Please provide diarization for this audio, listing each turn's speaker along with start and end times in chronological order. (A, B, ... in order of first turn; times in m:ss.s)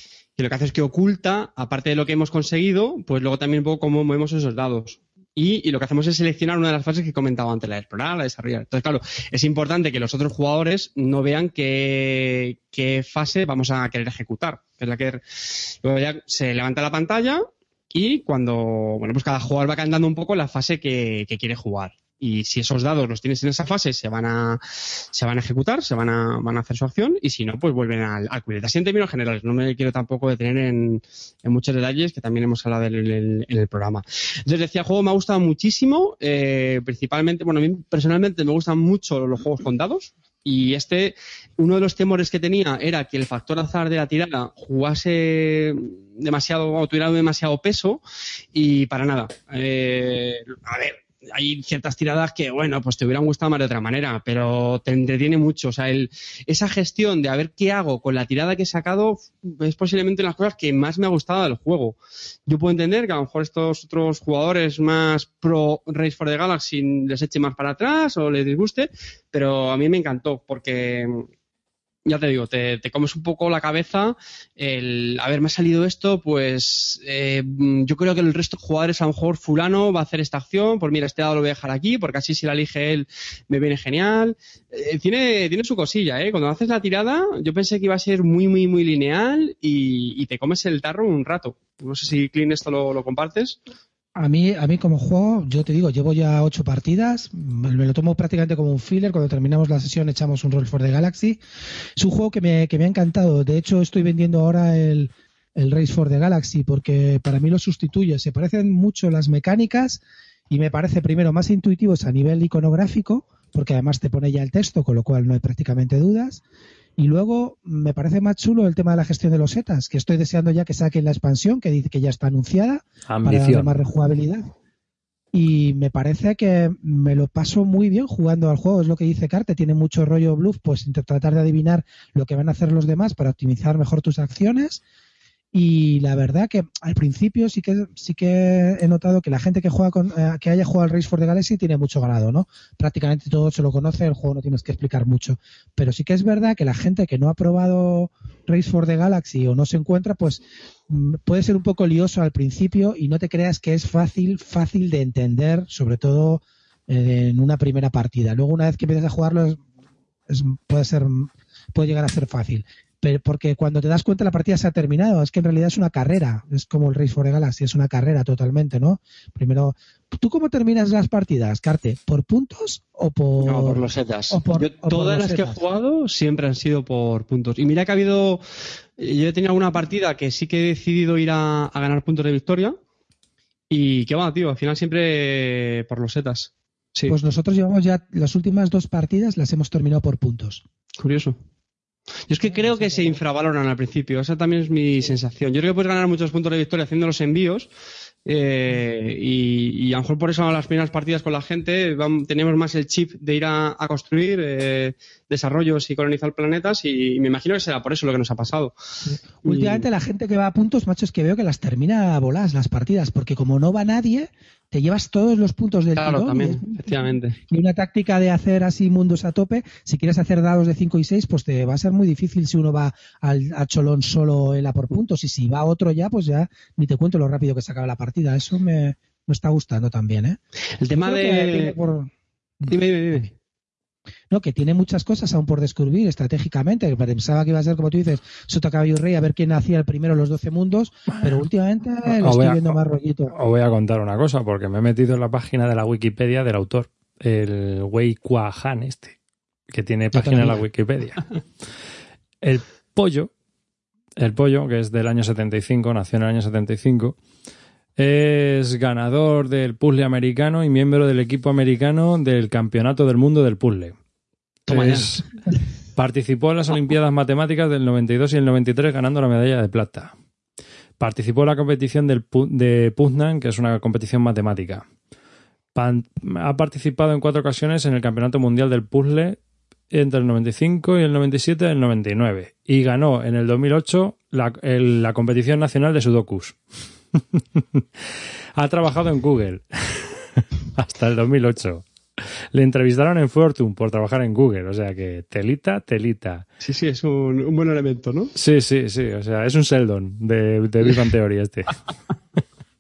0:00.4-0:24.6 A
0:25.1-0:48.0 A
0:48.5-1:11.3 A
1:12.1-1:33.6 A
1:34.2-1:41.4 B
1:42.0-1:56.4 B
1:57.0-2:04.5 B
2:03.1-2:03.8 C
2:05.3-2:14.8 B
2:15.5-2:39.6 B
2:40.3-2:55.6 B
2:53.4-2:58.4 A
2:59.0-3:02.8 A
3:03.7-3:07.2 A
3:07.1-3:10.6 B
3:11.0-3:11.4 A
3:12.3-3:17.7 A
3:12.5-3:13.2 B
3:18.3-3:28.7 A
3:29.4-3:29.9 A
3:29.4-3:50.4 B
3:36.0-3:37.4 A
3:50.8-3:51.8 A
3:50.9-3:52.1 B
3:52.7-3:53.3 A
3:54.3-4:03.3 B
4:02.1-4:02.8 C
4:03.3-4:09.2 C
4:09.7-4:11.3 C
4:10.1-4:10.6 B
4:12.4-4:13.3 C
4:14.2-4:17.2 C
4:18.0-4:24.0 C
4:24.7-4:25.2 C
4:24.7-4:25.1 A
4:26.0-4:30.1 C
4:31.0-4:34.8 C
4:35.7-4:39.4 C
4:39.9-4:46.6 C
4:47.2-4:48.0 C
4:48.6-4:56.4 C
4:56.6-4:58.3 A
4:58.4-5:01.8 C